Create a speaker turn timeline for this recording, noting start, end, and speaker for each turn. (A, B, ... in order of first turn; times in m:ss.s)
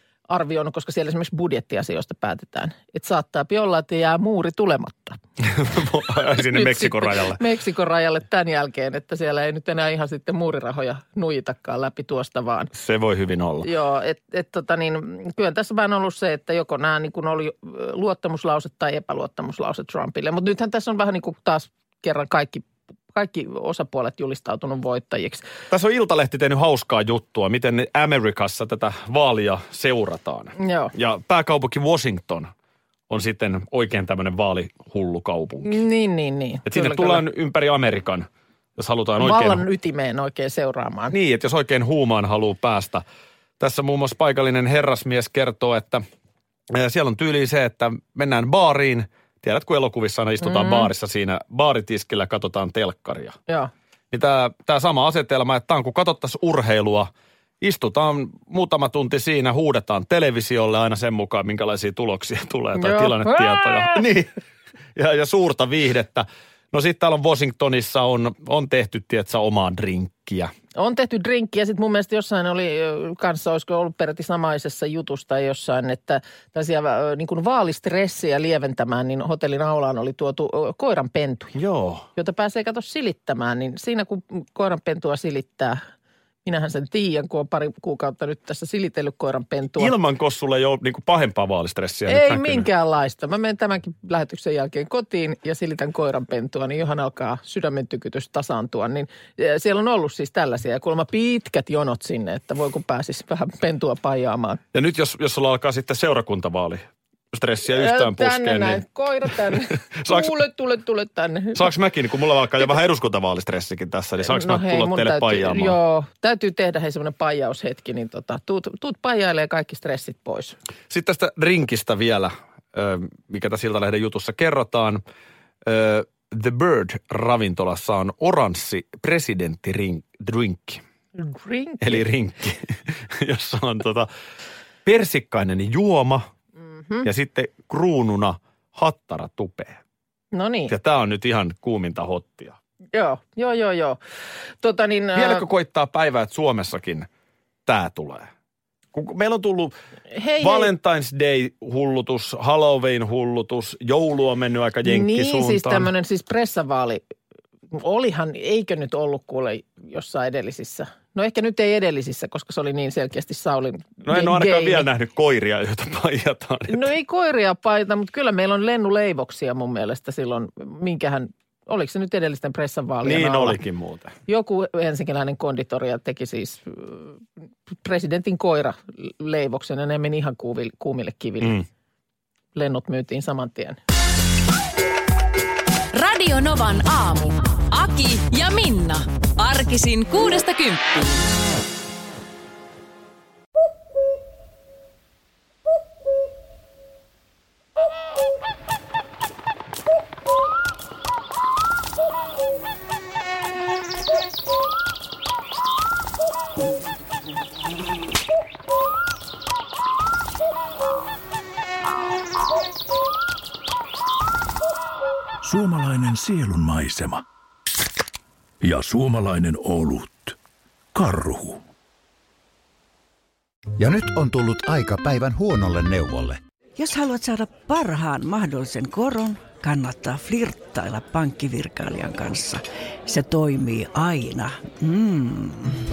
0:00.3-0:05.2 A
0:05.4-0:07.4 B
0:06.4-0:12.7 A
0:12.7-0:13.7 B
0:13.6-0:25.4 A
0:25.7-0:32.5 B
0:30.6-0:30.9 A
0:33.1-0:35.8 B
0:35.6-0:37.2 A
0:36.7-0:39.6 B
0:39.2-0:41.2 A
0:41.1-0:43.0 B
0:43.6-0:46.0 B
0:46.7-0:53.4 B
0:50.4-0:50.9 A
0:54.1-0:57.1 B
0:57.6-1:04.3 B
1:02.8-1:04.0 A
1:05.0-1:10.5 B
1:10.8-1:21.6 A
1:21.6-1:22.1 B
1:22.2-1:25.8 A
1:26.4-1:29.9 A
1:29.8-1:32.7 B
1:32.1-1:44.6 A
1:44.7-1:50.4 B
1:47.7-1:51.7 A
1:51.6-1:55.8 B
1:54.2-2:00.6 A
2:00.9-2:05.0 B
2:05.6-2:10.8 B
2:11.2-2:12.0 A
2:11.8-2:14.1 B
2:14.8-2:16.2 B
2:16.6-2:17.1 A
2:17.0-2:19.8 B
2:20.3-2:20.7 A
2:20.7-2:22.6 B
2:22.9-2:24.0 A
2:24.6-2:25.5 A
2:25.1-2:27.1 B
2:27.7-2:28.3 B
2:28.9-2:29.7 B
2:30.1-2:30.7 A
2:30.4-2:35.9 B
2:34.8-2:37.0 A
2:37.7-2:44.9 A
2:44.0-2:46.9 B
2:46.7-2:53.6 A
2:53.0-2:54.1 B
2:54.3-3:01.6 A
3:01.4-3:01.7 B
3:02.6-3:03.8 A
3:05.9-3:11.2 C
3:35.4-3:37.2 D
3:38.6-3:40.4 D
3:40.9-3:41.6 D
3:43.8-3:46.4 E
3:46.8-3:55.8 F